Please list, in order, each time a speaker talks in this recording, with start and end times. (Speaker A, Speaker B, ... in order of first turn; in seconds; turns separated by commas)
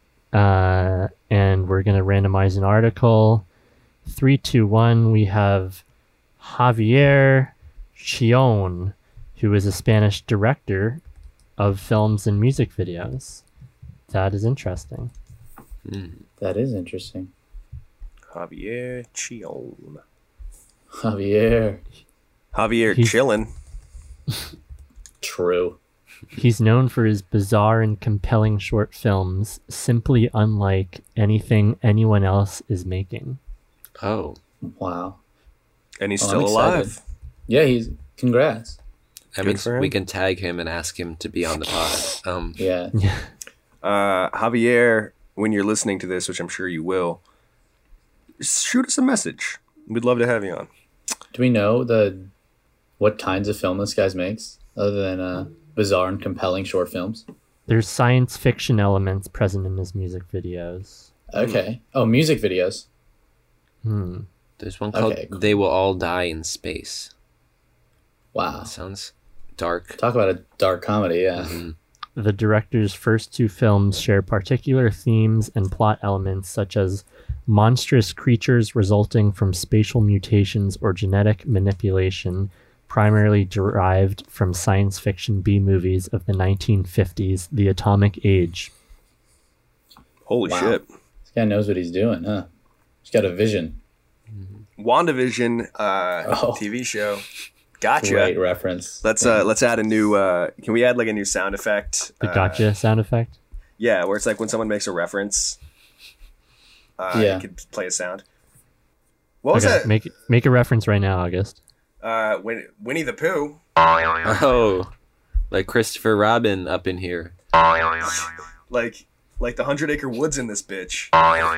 Speaker A: 0.3-3.5, Speaker A: 4.1-5.8, Speaker A: 6.4-11.0, Speaker A: 11.6-13.4, Speaker A: 14.1-15.1, Speaker B: 15.9-16.2, Speaker C: 16.4-17.3, Speaker D: 18.3-20.0, Speaker C: 20.9-21.8, Speaker D: 22.5-23.5, Speaker C: 25.2-25.8, Speaker A: 26.3-33.4, Speaker B: 34.0-34.4, Speaker C: 34.6-35.2, Speaker D: 36.0-37.0, Speaker C: 36.2-37.0, Speaker C: 37.5-38.8, Speaker B: 39.4-42.6, Speaker D: 39.4-39.9, Speaker C: 42.6-42.9, Speaker A: 42.9-43.3, Speaker D: 43.8-47.2, Speaker D: 48.4-50.7, Speaker C: 51.3-52.3, Speaker C: 53.0-57.2, Speaker A: 57.7-61.1, Speaker C: 61.3-62.9, Speaker D: 61.4-61.6, Speaker A: 63.8-64.3, Speaker B: 64.6-67.1, Speaker C: 64.9-65.6, Speaker C: 68.3-68.7, Speaker B: 68.7-70.0, Speaker C: 70.0-71.6, Speaker B: 71.4-71.8, Speaker A: 72.2-88.7, Speaker D: 90.3-90.9, Speaker C: 90.5-92.5, Speaker C: 93.0-93.8, Speaker B: 94.3-94.6, Speaker D: 94.8-97.2, Speaker C: 96.2-96.7, Speaker D: 97.8-98.3, Speaker C: 98.0-99.5, Speaker D: 99.0-102.7, Speaker A: 102.2-103.4, Speaker D: 103.8-105.6, Speaker D: 107.0-108.2, Speaker C: 107.1-107.5, Speaker D: 109.4-109.9, Speaker A: 109.5-111.6, Speaker D: 112.0-113.6, Speaker B: 114.2-114.9, Speaker B: 115.5-117.3, Speaker D: 118.7-121.1